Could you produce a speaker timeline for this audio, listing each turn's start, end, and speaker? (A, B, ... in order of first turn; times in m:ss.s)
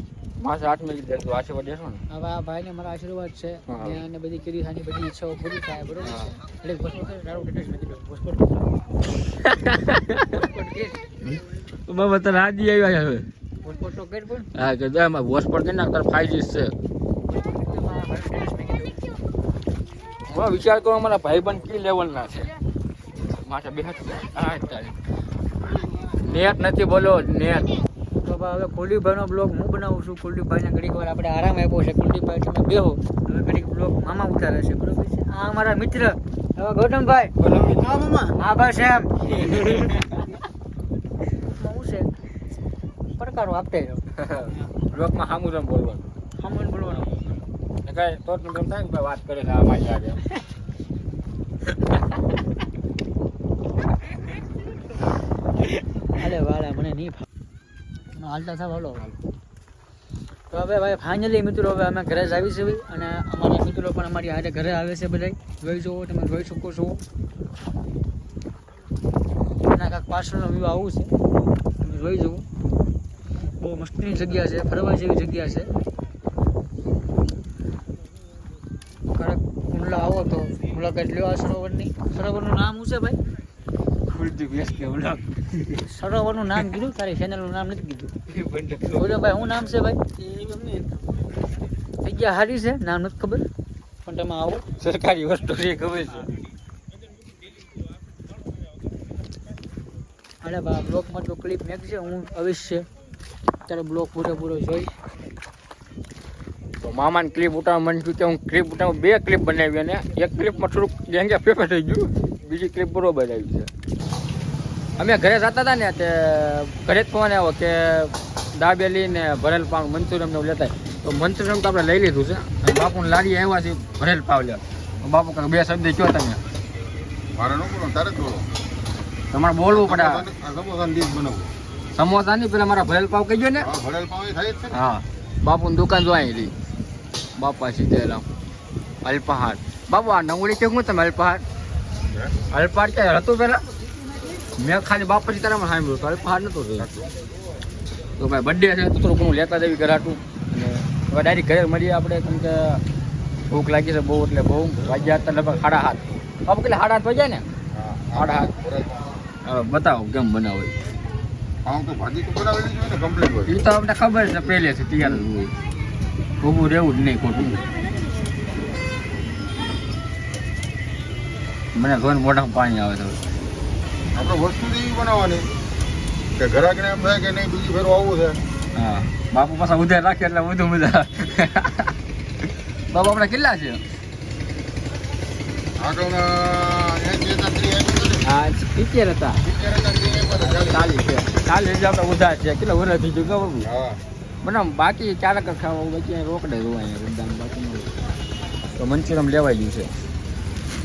0:00.4-0:02.0 A
0:02.1-0:08.7 B
0:03.7-0:04.0 A
0:06.0-0:06.3 A
0:09.4-0:10.4 A
0:10.3-0:11.0 B
0:11.2-0:13.3 A
0:13.6-0:14.5 B
0:14.5-0:16.7 A
0:17.3-0:19.0 B
0:20.3-0:22.5 A
0:23.4-0:25.0 A
0:26.2-0:27.8 A
0:28.2-0:37.4 B
0:37.4-0:38.0 A
0:37.4-0:38.4 C
0:38.4-0:39.9 B
0:41.4-0:42.1 B
0:43.2-0:44.0 B
0:44.2-0:46.0 A
0:46.4-0:47.2 B
0:47.8-0:50.2 A
0:56.1-0:57.3 B
0:58.2-0:59.1 B
1:00.5-1:07.0 B
1:09.6-1:11.1 B
1:11.8-1:12.5 B
1:13.6-1:15.7 B
1:19.1-1:23.2 B
1:24.1-1:25.8 A
1:25.9-1:28.1 B
1:28.3-1:29.1 A
1:28.9-1:30.0 B
1:30.2-1:31.1 C
1:32.0-1:33.5 B
1:34.0-1:34.6 B
1:34.8-1:36.3 A
1:40.4-1:42.9 B
1:43.7-1:45.0 B
1:46.8-1:53.7 A
1:55.0-2:06.4 A
2:07.4-2:08.4 D
2:09.3-2:10.3 A
2:10.4-2:11.5 D
2:11.9-2:13.8 A
2:13.8-2:14.6 D
2:14.7-2:16.5 A
2:17.4-2:18.2 A
2:19.0-2:21.4 A
2:22.5-2:23.6 A
2:24.6-2:26.9 A
2:28.2-2:32.8 A
2:33.5-2:37.5 A
2:38.1-2:38.6 A
2:39.4-2:40.7 A
2:41.7-2:43.3 D
2:43.4-2:45.5 A
2:46.4-2:47.6 A
2:51.8-2:53.2 A
2:54.2-2:55.5 D
2:56.4-2:58.4 D
2:58.7-3:01.9 A
3:02.9-3:03.8 A
3:05.8-3:08.1 D
3:08.2-3:13.8 A
3:14.4-3:17.9 A
3:18.8-3:19.9 A